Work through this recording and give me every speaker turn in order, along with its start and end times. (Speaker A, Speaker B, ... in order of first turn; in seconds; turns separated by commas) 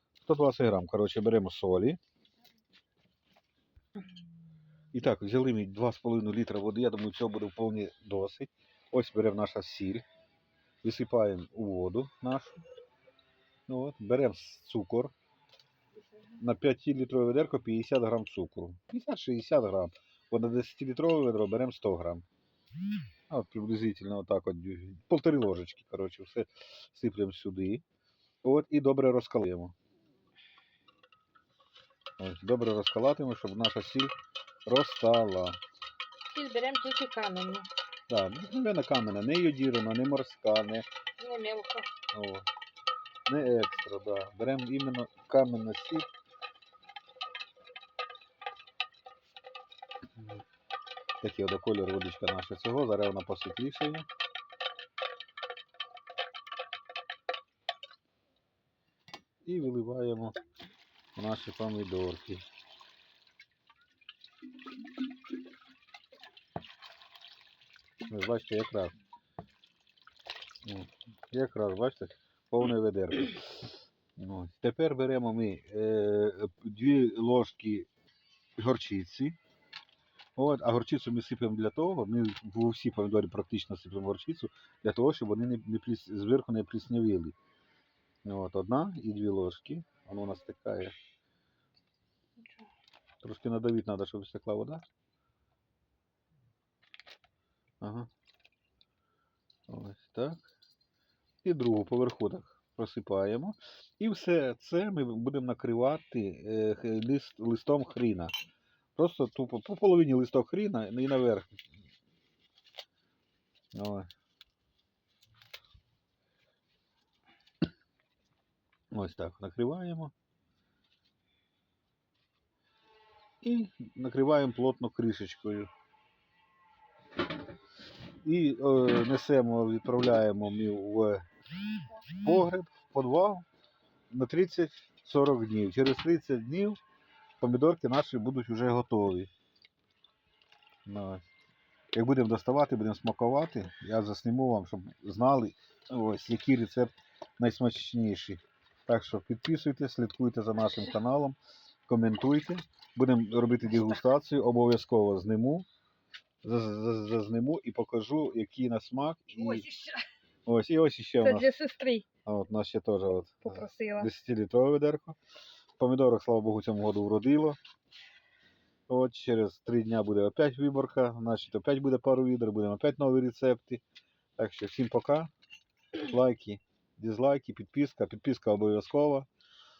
Speaker A: 0.2-2.0, Speaker A: 4.9-10.0, Speaker A: 10.8-12.6, Speaker A: 13.7-15.1, Speaker A: 16.4-22.2, Speaker A: 23.3-27.8, Speaker A: 28.4-29.7, Speaker A: 32.2-34.1, Speaker A: 34.6-35.6, Speaker B: 36.3-37.7, Speaker A: 38.1-40.9, Speaker B: 41.2-41.9, Speaker A: 42.1-42.5, Speaker A: 43.3-46.1, Speaker A: 51.2-54.0, Speaker A: 59.4-60.4, Speaker A: 61.1-62.4, Speaker A: 68.1-68.9, Speaker A: 70.6-77.9, Speaker A: 78.6-79.4, Speaker A: 80.3-87.3, Speaker A: 88.2-90.9, Speaker A: 93.2-94.8, Speaker A: 97.8-98.1, Speaker A: 99.7-100.4, Speaker A: 101.4-108.3, Speaker A: 109.0-111.5, Speaker A: 113.7-114.1, Speaker A: 118.9-120.1, Speaker A: 123.4-125.7, Speaker A: 128.2-131.2, Speaker A: 132.1-133.4, Speaker A: 134.1-136.8, Speaker A: 137.4-139.3, Speaker A: 140.8-141.2, Speaker A: 141.9-155.7, Speaker A: 156.4-159.7, Speaker B: 159.5-160.0, Speaker A: 160.4-161.5, Speaker B: 161.2-162.1, Speaker A: 162.2-165.2, Speaker B: 163.4-164.1, Speaker A: 165.8-167.6, Speaker A: 168.9-173.8, Speaker A: 174.4-175.3, Speaker A: 176.0-179.3